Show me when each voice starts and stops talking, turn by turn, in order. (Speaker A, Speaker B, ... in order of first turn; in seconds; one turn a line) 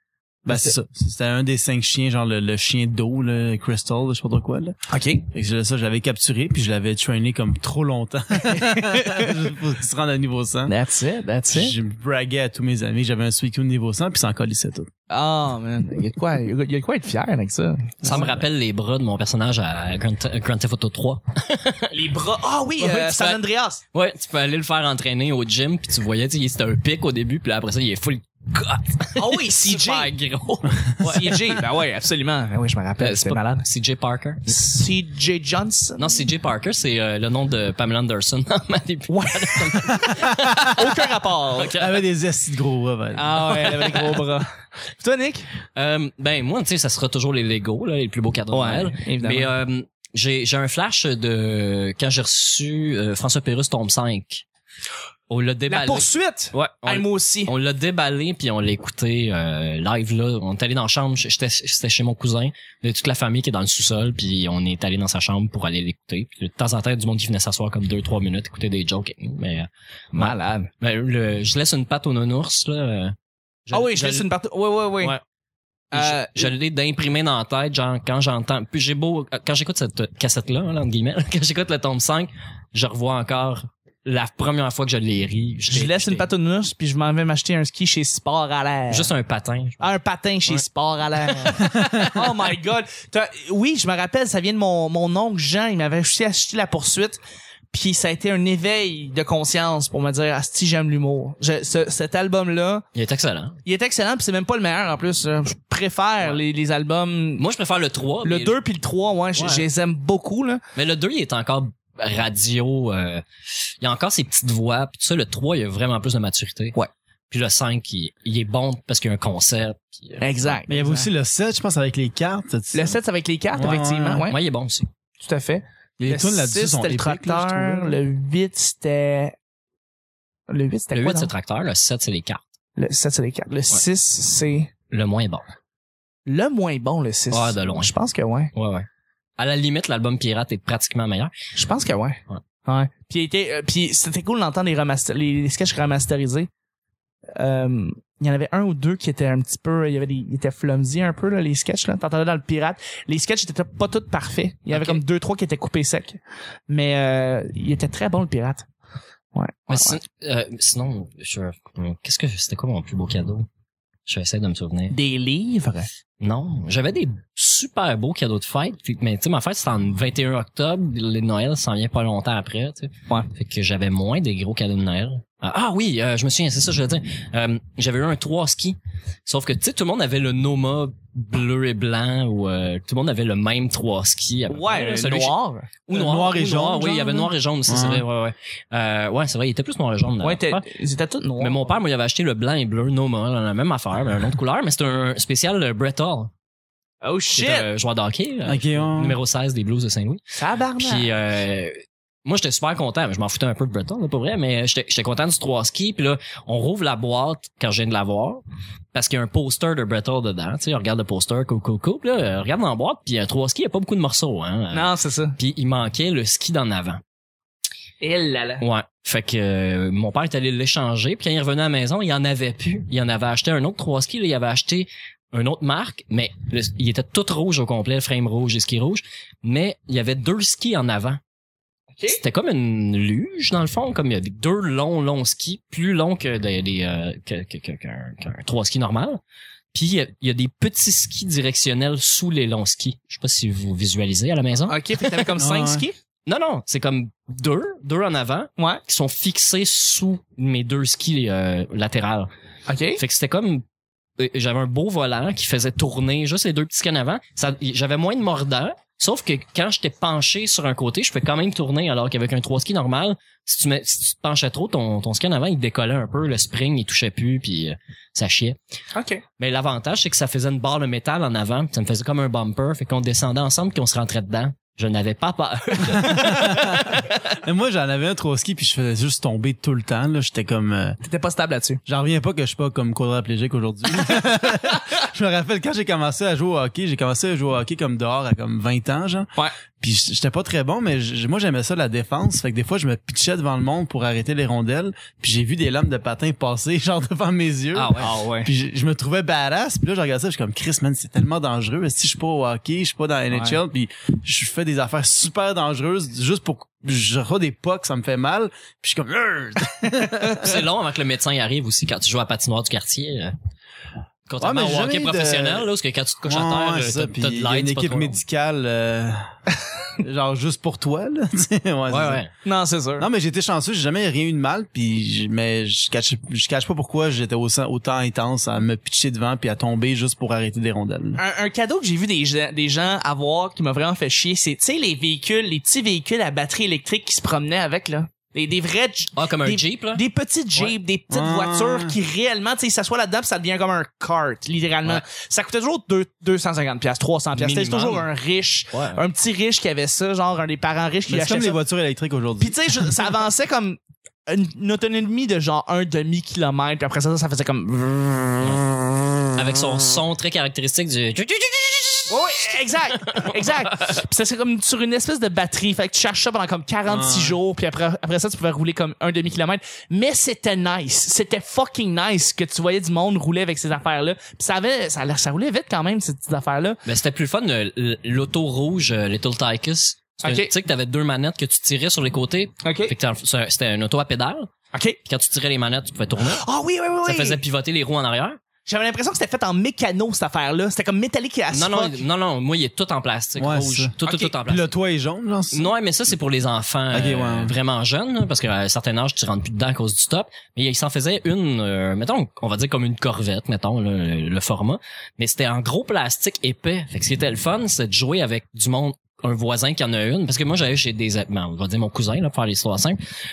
Speaker A: 0.4-10.7
Speaker B: 0.5-0.7
Speaker B: 4.9-5.2
Speaker B: 8.4-9.3
Speaker B: 10.7-11.7
Speaker A: 11.5-14.9
Speaker B: 15.1-18.4
Speaker C: 18.0-21.9
Speaker B: 21.9-23.8
Speaker C: 22.8-23.4
Speaker C: 23.9-31.6
Speaker B: 29.2-30.1
Speaker B: 31.0-33.6
Speaker C: 33.0-34.6
Speaker B: 34.5-36.2
Speaker C: 36.0-40.8
Speaker B: 39.1-41.8
Speaker A: 39.9-40.7
Speaker C: 41.6-41.9
Speaker A: 41.7-43.8
Speaker B: 43.1-45.5
Speaker C: 43.6-44.1
Speaker C: 45.8-54.4
Speaker B: 48.5-49.5
Speaker C: 55.3-73.2
Speaker B: 55.7-57.5
Speaker B: 70.1-70.7
Speaker C: 73.7-74.3
Speaker B: 73.7-75.1
Speaker B: 75.9-76.5
Speaker C: 75.9-86.3
Speaker B: 85.7-89.1
Speaker C: 88.9-89.9
Speaker B: 89.8-97.2
Speaker A: 91.5-92.2
Speaker B: 97.7-102.8
Speaker C: 102.9-103.6
Speaker B: 103.6-107.4
Speaker C: 107.4-108.6
Speaker B: 108.2-110.6
Speaker C: 109.3-109.7
Speaker C: 110.7-113.2
Speaker C: 113.8-116.8
Speaker C: 117.3-120.6
Speaker B: 120.2-121.1
Speaker A: 120.7-123.0
Speaker B: 122.7-124.4
Speaker A: 123.5-124.2
Speaker C: 124.2-124.9
Speaker B: 125.2-129.3
Speaker A: 126.0-128.0
Speaker B: 130.5-131.3
Speaker C: 130.9-132.4
Speaker B: 132.8-134.7
Speaker C: 134.9-135.4
Speaker B: 136.3-138.5
Speaker C: 137.3-137.9
Speaker C: 138.5-138.9
Speaker C: 139.4-141.3
Speaker B: 141.5-146.5
Speaker B: 147.3-158.7
Speaker C: 154.7-155.0
Speaker B: 159.3-160.0
Speaker C: 159.7-163.5
Speaker C: 164.1-164.9
Speaker B: 164.9-165.9
Speaker C: 166.2-190.6
Speaker B: 184.5-185.7
Speaker A: 185.9-188.0
Speaker B: 190.2-191.7
Speaker C: 191.4-196.3
Speaker B: 197.0-197.7
Speaker C: 197.3-200.2
Speaker A: 198.4-199.2
Speaker B: 200.4-201.1
Speaker C: 200.8-208.4
Speaker C: 208.9-217.0
Speaker B: 214.7-215.4
Speaker B: 218.0-218.6
Speaker C: 218.6-231.2
Speaker C: 232.1-239.2
Speaker C: 239.7-245.3
Speaker B: 244.7-245.9
Speaker A: 245.4-245.8
Speaker C: 246.3-252.3
Speaker B: 252.7-253.0
Speaker C: 253.0-253.6
Speaker C: 254.2-268.6
Speaker B: 268.9-269.2
Speaker C: 269.4-277.2
Speaker A: 275.8-281.0
Speaker B: 281.0-281.8
Speaker A: 281.9-289.3
Speaker A: 289.8-310.6
Speaker C: 297.7-298.1
Speaker B: 298.0-298.5
Speaker B: 303.3-303.6
Speaker C: 310.2-313.3
Speaker C: 314.3-318.2
Speaker A: 314.4-315.7
Speaker A: 316.2-319.3
Speaker A: 320.0-322.2
Speaker C: 321.9-322.3
Speaker B: 322.4-323.1
Speaker A: 323.0-331.2
Speaker B: 331.2-351.6
Speaker C: 339.1-340.0
Speaker A: 341.1-341.9
Speaker C: 347.4-348.1
Speaker C: 348.7-349.0
Speaker A: 351.1-352.8
Speaker B: 352.4-358.5
Speaker C: 358.4-358.6
Speaker C: 359.3-364.0
Speaker B: 362.1-376.8
Speaker A: 366.9-367.4
Speaker C: 376.8-384.5
Speaker B: 380.2-380.5
Speaker B: 382.6-382.9
Speaker C: 385.0-386.4
Speaker B: 386.2-387.4
Speaker C: 387.0-388.4
Speaker B: 388.6-392.0
Speaker C: 391.5-394.7
Speaker A: 393.4-393.9
Speaker B: 394.0-394.3
Speaker A: 394.4-395.7
Speaker C: 395.5-413.0
Speaker A: 396.9-397.5